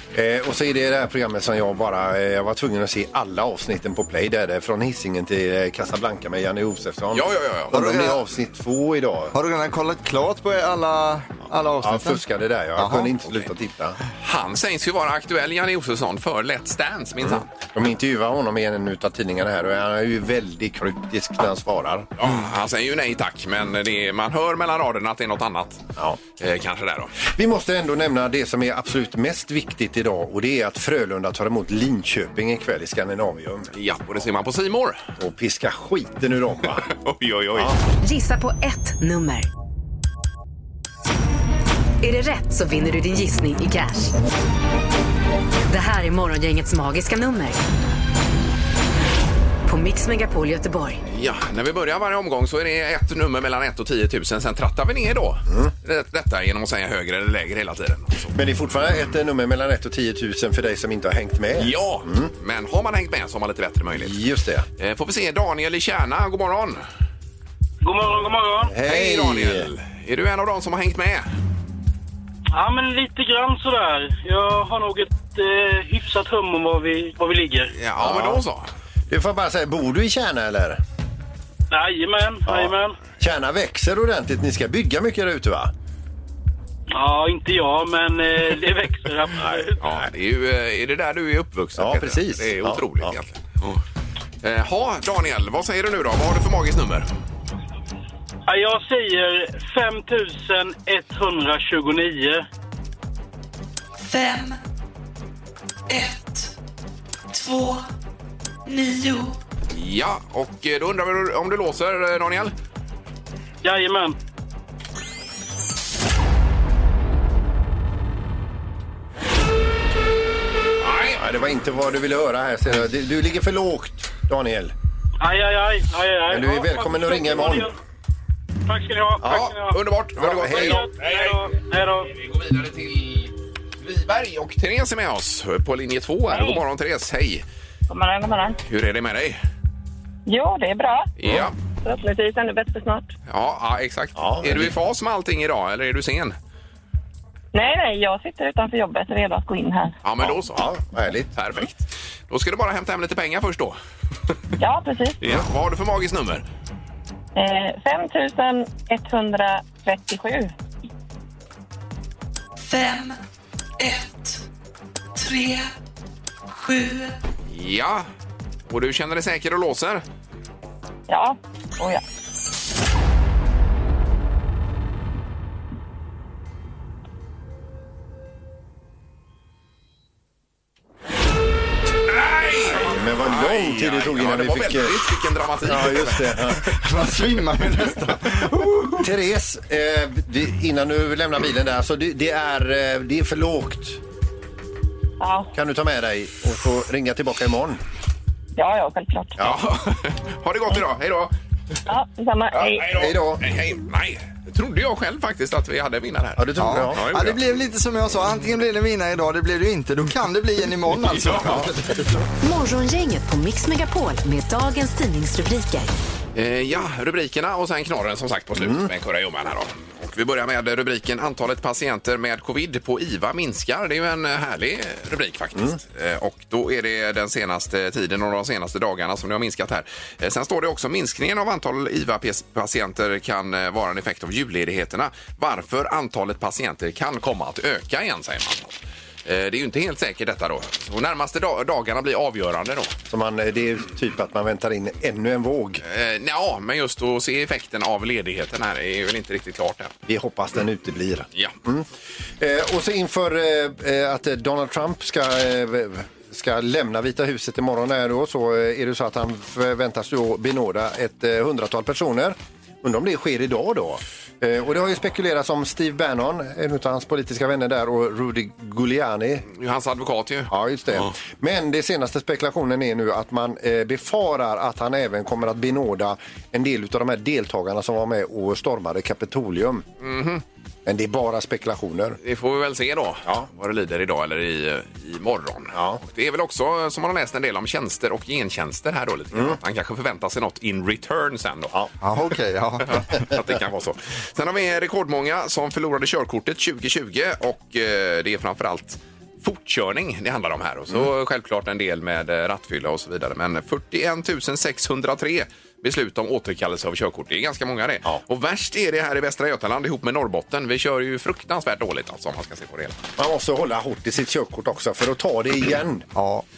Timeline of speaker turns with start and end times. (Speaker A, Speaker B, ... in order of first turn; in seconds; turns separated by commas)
Speaker A: 0.1-9.3, Speaker B: 7.1-7.8, Speaker C: 7.7-8.2, Speaker C: 9.3-12.2, Speaker A: 11.8-14.0, Speaker C: 12.8-13.1, Speaker B: 14.2-17.5, Speaker A: 17.2-22.3, Speaker B: 22.2-25.9, Speaker B: 26.4-27.1, Speaker A: 27.2-33.7, Speaker B: 33.7-35.0, Speaker A: 35.2-36.9, Speaker B: 36.8-37.8, Speaker D: 38.0-39.5, Speaker D: 42.0-44.1, Speaker D: 45.7-47.6, Speaker D: 49.6-51.0, Speaker B: 51.1-58.3, Speaker A: 58.3-62.3, Speaker B: 61.6-64.2, Speaker A: 64.0-64.7, Speaker B: 64.8-66.8, Speaker E: 67.8-68.7, Speaker A: 68.7-69.7, Speaker B: 68.8-71.3, Speaker E: 72.5-77.7, Speaker B: 77.7-78.7, Speaker A: 78.0-78.4, Speaker A: 79.1-80.8, Speaker E: 81.7-83.0, Speaker A: 82.5-85.7, Speaker E: 86.9-89.8, Speaker A: 89.4-90.0, Speaker B: 89.8-93.8, Speaker A: 91.8-93.1, Speaker B: 94.4-97.1, Speaker E: 98.5-102.4, Speaker F: 104.0-104.6, Speaker F: 105.9-106.5, Speaker F: 107.3-107.9, Speaker F: 108.7-109.3, Speaker B: 109.7-112.5, Speaker E: 113.6-114.2, Speaker B: 120.8-121.2, Speaker A: 121.2-124.7, Speaker E: 125.2-127.8, Speaker A: 126.3-127.7, Speaker E: 128.7-129.8, Speaker A: 129.2-129.5, Speaker B: 129.2-131.4, Speaker A: 130.2-130.8, Speaker E: 130.5-132.1, Speaker B: 132.1-137.4, Speaker G: 136.3-136.6, Speaker G: 137.9-138.6, Speaker B: 138.7-139.4, Speaker G: 140.2-141.1, Speaker B: 141.2-141.5, Speaker G: 141.8-143.1, Speaker B: 143.3-146.3, Speaker A: 144.2-144.8, Speaker G: 147.5-149.9, Speaker B: 150.0-150.7, Speaker A: 150.2-151.3, Speaker B: 151.3-153.8, Speaker G: 154.6-155.2, Speaker B: 155.2-156.4, Speaker G: 157.3-160.5, Speaker F: 162.6-163.2, Speaker F: 163.8-164.4, Speaker F: 165.2-165.7, Speaker F: 166.5-167.2, Speaker B: 167.5-168.1, Speaker B: 168.7-170.0, Speaker G: 171.1-172.0, Speaker B: 182.1-186.5, Speaker A: 182.7-185.0, Speaker A: 185.6-186.6, Speaker C: 186.7-189.1, Speaker A: 189.0-194.0, Speaker G: 195.2-195.5, Speaker A: 195.5-197.8, Speaker G: 198.6-199.3, Speaker B: 199.4-201.3, Speaker G: 201.9-202.9, Speaker B: 202.5-207.4, Speaker A: 202.9-203.4, Speaker A: 206.4-207.1, Speaker C: 206.6-212.3, Speaker B: 211.0-211.6, Speaker A: 211.4-211.7, Speaker D: 212.4-215.9, Speaker B: 216.3-238.7, Speaker A: 218.6-218.9, Speaker B: 239.2-242.9, Speaker A: 243.1-245.8, Speaker B: 245.8-249.9, Speaker A: 250.1-251.9, Speaker A: 252.4-269.4, Speaker B: 269.5-271.0, Speaker A: 270.5-279.8, Speaker B: 280.0-280.4, Speaker A: 280.9-282.2, Speaker B: 282.2-291.7, Speaker A: 285.7-286.0, Speaker A: 289.3-289.6, Speaker C: 292.0-293.1, Speaker B: 293.1-313.0, Speaker A: 313.2-316.1, Speaker C: 316.1-316.4